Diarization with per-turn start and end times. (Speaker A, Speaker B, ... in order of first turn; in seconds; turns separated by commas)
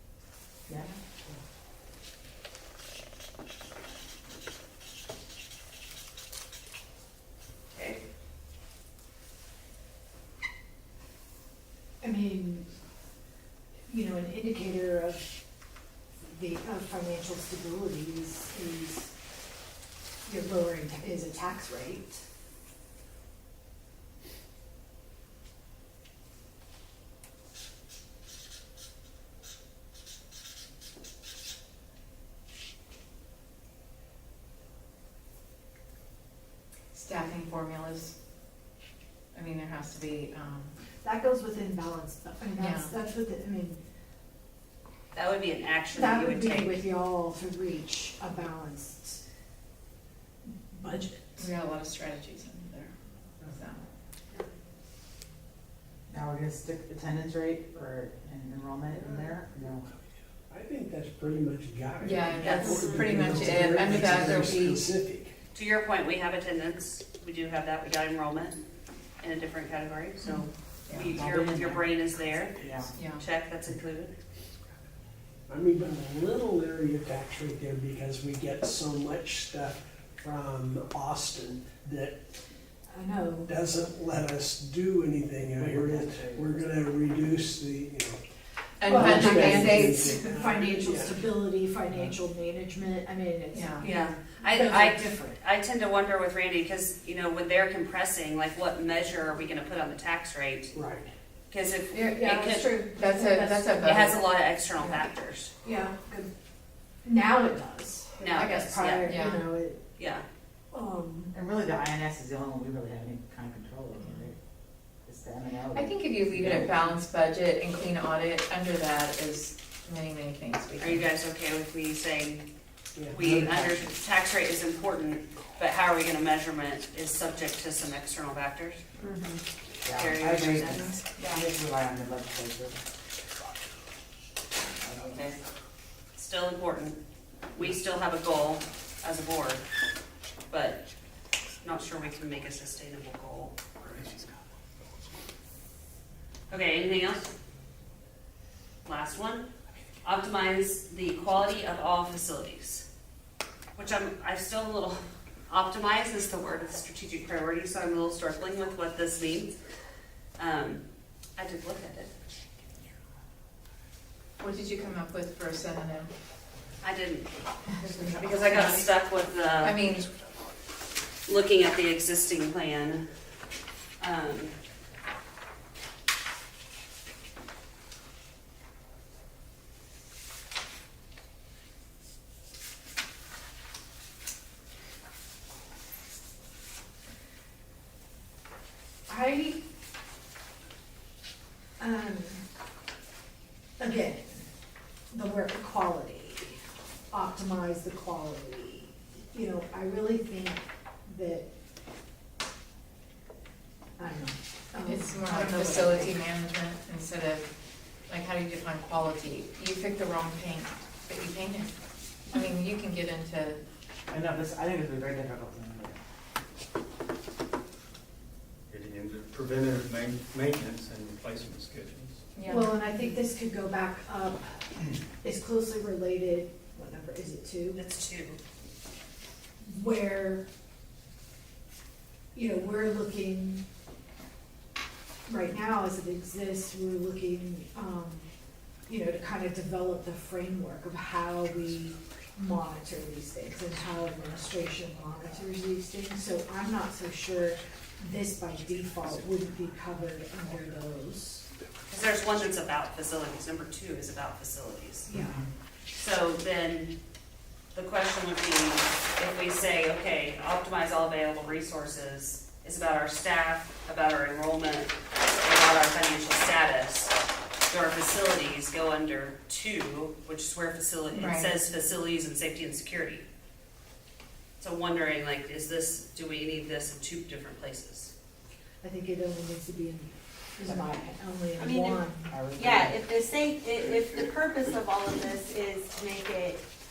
Speaker A: 0.7-0.9, Speaker B: 7.7-8.0, Speaker C: 12.0-12.6, Speaker C: 13.9-15.3, Speaker C: 16.2-19.1, Speaker C: 20.2-22.2, Speaker D: 36.9-38.1, Speaker D: 39.3-40.7, Speaker C: 41.0-43.8, Speaker D: 42.6-42.9, Speaker B: 45.1-46.8, Speaker C: 45.9-49.2, Speaker C: 50.5-51.5, Speaker D: 51.4-53.9, Speaker A: 56.1-59.9, Speaker E: 59.0-59.3, Speaker E: 60.5-65.4, Speaker D: 62.0-64.8, Speaker B: 62.4-62.8, Speaker F: 62.7-63.2, Speaker B: 63.8-64.4, Speaker B: 65.5-68.6, Speaker B: 69.2-72.6, Speaker D: 70.2-71.1, Speaker A: 71.0-71.9, Speaker A: 72.5-72.9, Speaker D: 72.9-73.2, Speaker B: 73.1-74.1, Speaker E: 75.5-82.2, Speaker C: 82.9-83.5, Speaker E: 83.4-88.2, Speaker G: 85.6-86.8, Speaker D: 88.8-90.2, Speaker E: 88.8-91.4, Speaker C: 88.8-95.4, Speaker D: 93.5-93.8, Speaker B: 93.8-100.7, Speaker E: 100.7-101.1, Speaker B: 101.5-102.7, Speaker D: 101.9-104.2, Speaker C: 102.2-104.2, Speaker B: 103.8-105.5, Speaker C: 104.8-105.0, Speaker C: 105.6-106.3, Speaker C: 107.0-109.8, Speaker B: 108.2-109.1, Speaker D: 108.3-109.5, Speaker B: 110.0-110.2, Speaker C: 110.7-111.3, Speaker A: 111.3-114.4, Speaker A: 115.0-117.0, Speaker D: 115.7-121.0, Speaker B: 120.8-122.4, Speaker E: 123.0-123.4, Speaker B: 123.1-128.8, Speaker A: 123.2-123.9, Speaker F: 129.0-129.4, Speaker A: 129.8-132.8, Speaker B: 129.9-131.0, Speaker A: 134.8-135.3, Speaker B: 136.1-137.0, Speaker B: 137.5-139.7, Speaker B: 140.5-140.8, Speaker B: 141.6-143.6, Speaker E: 143.8-144.2, Speaker B: 146.5-147.3, Speaker B: 148.8-149.5, Speaker B: 150.0-152.9, Speaker B: 153.8-159.7, Speaker B: 160.4-160.8, Speaker B: 161.3-162.1, Speaker D: 164.4-166.1, Speaker B: 166.8-169.8, Speaker D: 167.8-168.9, Speaker D: 169.6-170.1, Speaker B: 171.2-173.1, Speaker B: 174.0-174.6, Speaker C: 189.1-189.6, Speaker C: 191.8-192.4, Speaker C: 193.8-194.4, Speaker C: 195.1-196.6, Speaker C: 197.1-201.5, Speaker C: 204.0-206.1, Speaker D: 204.8-207.5, Speaker D: 208.1-211.7, Speaker D: 212.3-213.6, Speaker A: 214.1-216.0, Speaker G: 218.7-222.2, Speaker D: 222.3-223.2, Speaker C: 222.4-224.7, Speaker C: 225.2-227.8, Speaker B: 227.7-228.4, Speaker C: 229.6-230.4, Speaker C: 232.3-233.6, Speaker C: 235.2-238.3, Speaker C: 238.9-251.4, Speaker B: 251.9-255.1, Speaker C: 255.1-255.4, Speaker A: 255.1-255.4, Speaker B: 255.9-257.0, Speaker B: 257.7-267.1, Speaker B: 267.7-273.2, Speaker D: 271.1-271.5, Speaker B: 274.6-278.1, Speaker C: 278.8-282.4, Speaker A: 280.6-281.0, Speaker F: 281.5-286.6, Speaker A: 282.3-283.0